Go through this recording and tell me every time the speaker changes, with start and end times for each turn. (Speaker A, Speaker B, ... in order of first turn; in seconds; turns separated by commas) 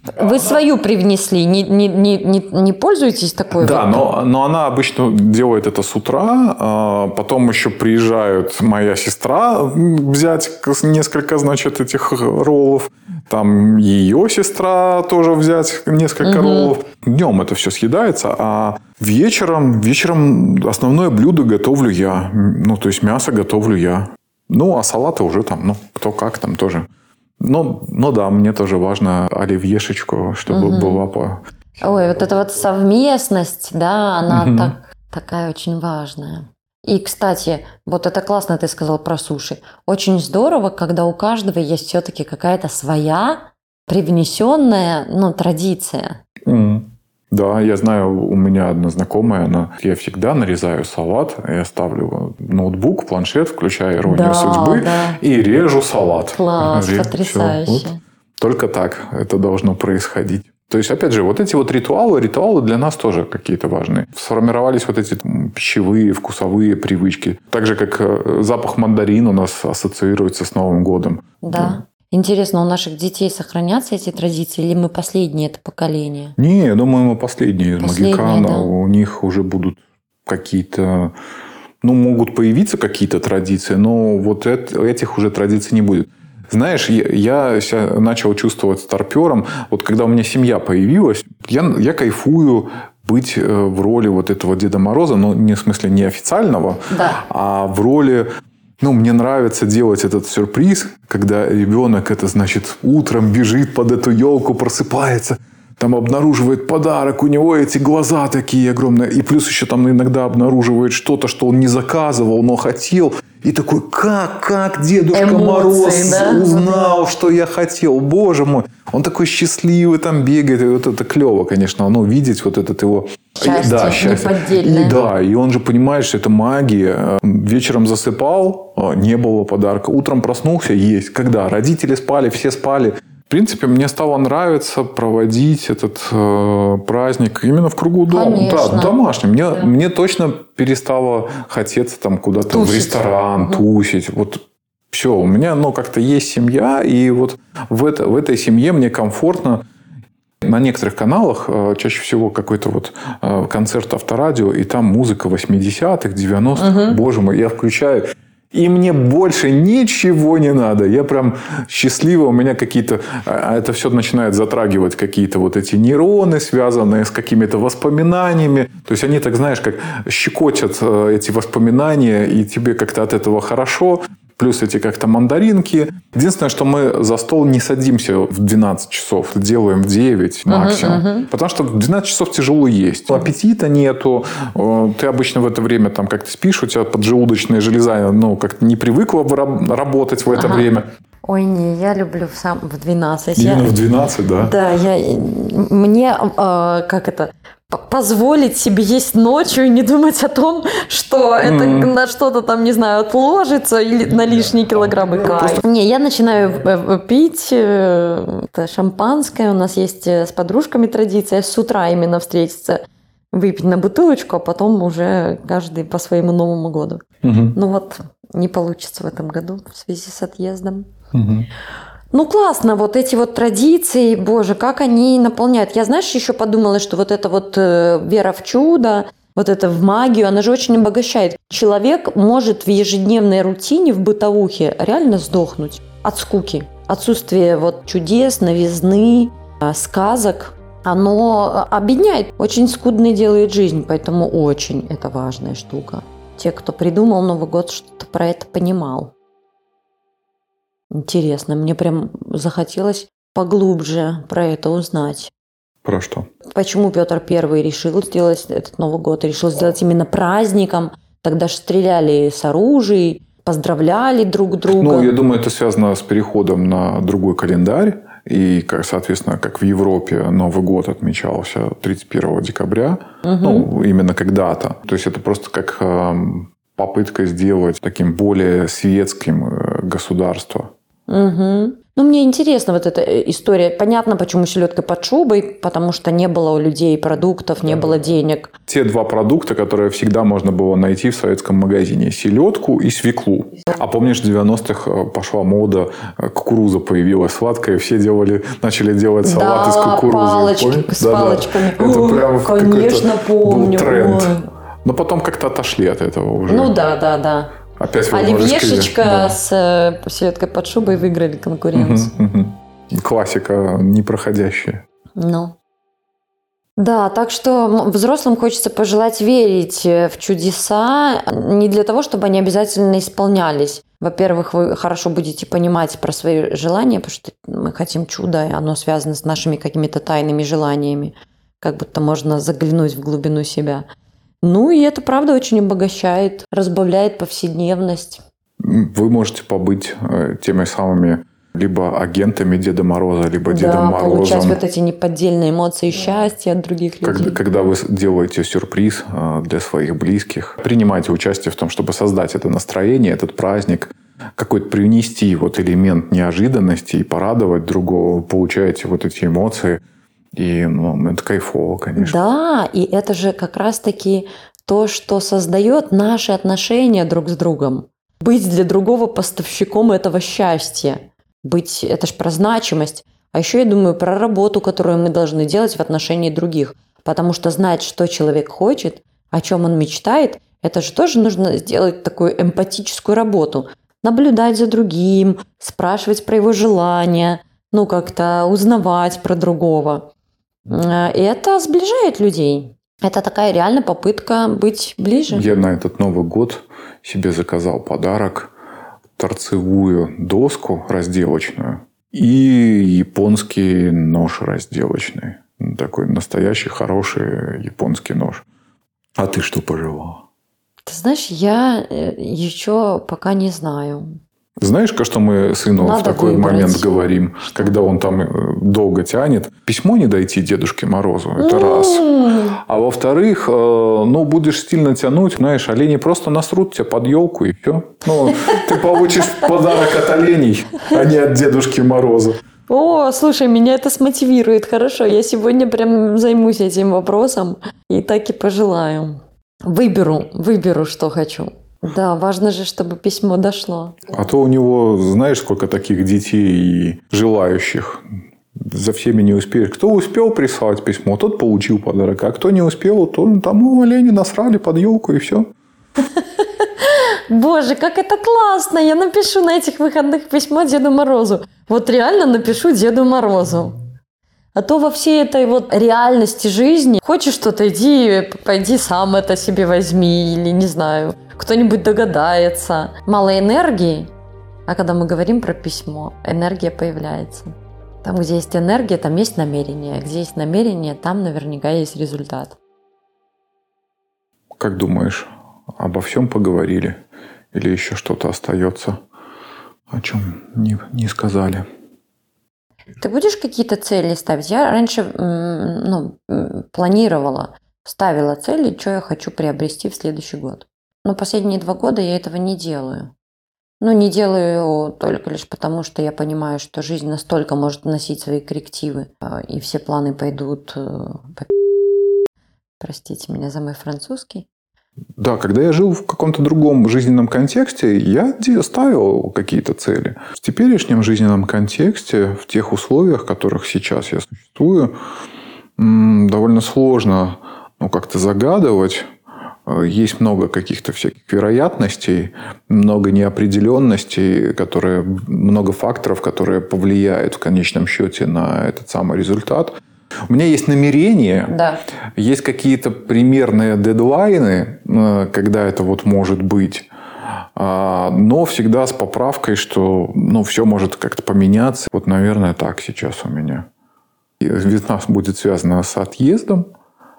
Speaker A: 0.2-4.1, Speaker B: 3.5-26.9, Speaker A: 16.2-16.7, Speaker B: 27.4-31.4, Speaker A: 30.5-31.0, Speaker A: 31.8-46.2, Speaker B: 34.3-34.8, Speaker B: 46.5-57.9, Speaker A: 54.1-55.2, Speaker A: 56.3-58.0, Speaker B: 58.4-71.8, Speaker A: 71.4-76.4, Speaker B: 76.4-81.2, Speaker A: 77.8-78.7, Speaker B: 81.8-98.3, Speaker A: 96.9-97.2, Speaker B: 98.8-149.6, Speaker A: 115.1-116.9, Speaker A: 123.4-125.0, Speaker A: 138.1-139.0, Speaker A: 142.5-143.6, Speaker B: 150.4-190.9, Speaker A: 156.6-157.0, Speaker A: 180.5-181.3, Speaker A: 190.3-190.7, Speaker A: 191.2-193.7, Speaker B: 193.4-194.5, Speaker A: 194.4-220.9, Speaker B: 201.4-201.9, Speaker B: 205.2-205.6, Speaker B: 217.2-217.6, Speaker B: 221.1-221.5, Speaker A: 222.1-249.1, Speaker A: 250.9-255.3, Speaker B: 255.8-256.3, Speaker A: 256.5-265.2, Speaker B: 264.7-280.7, Speaker A: 273.2-273.7, Speaker A: 281.1-288.6, Speaker B: 288.7-306.7, Speaker A: 299.2-304.5, Speaker A: 306.5-307.5, Speaker B: 307.8-309.4, Speaker A: 308.1-312.1, Speaker B: 311.7-314.8, Speaker A: 315.2-315.6, Speaker A: 316.8-333.9, Speaker A: 334.4-338.2, Speaker B: 338.6-344.6, Speaker A: 343.5-347.4, Speaker B: 347.0-359.8, Speaker B: 360.3-362.2, Speaker A: 362.0-390.1, Speaker A: 390.7-395.5, Speaker B: 395.3-398.5, Speaker B: 399.2-408.4, Speaker B: 409.2-410.2, Speaker A: 410.9-414.2, Speaker B: 414.6-432.4, Speaker A: 415.8-416.9, Speaker A: 421.4-422.6, Speaker A: 432.7-444.1, Speaker B: 444.1-448.0, Speaker B: 448.6-455.5, Speaker A: 456.1-463.8, Speaker A: 464.6-474.1, Speaker A: 474.7-482.6, Speaker B: 484.6-487.0, Speaker B: 487.5-489.0, Speaker B: 489.9-491.6, Speaker A: 493.0-503.1, Speaker A: 503.8-511.9, Speaker A: 512.8-514.5, Speaker B: 515.2-524.9, Speaker B: 525.8-529.1, Speaker B: 529.7-539.8, Speaker B: 540.3-541.5, Speaker A: 541.5-541.8, Speaker B: 542.2-553.7, Speaker B: 554.4-556.7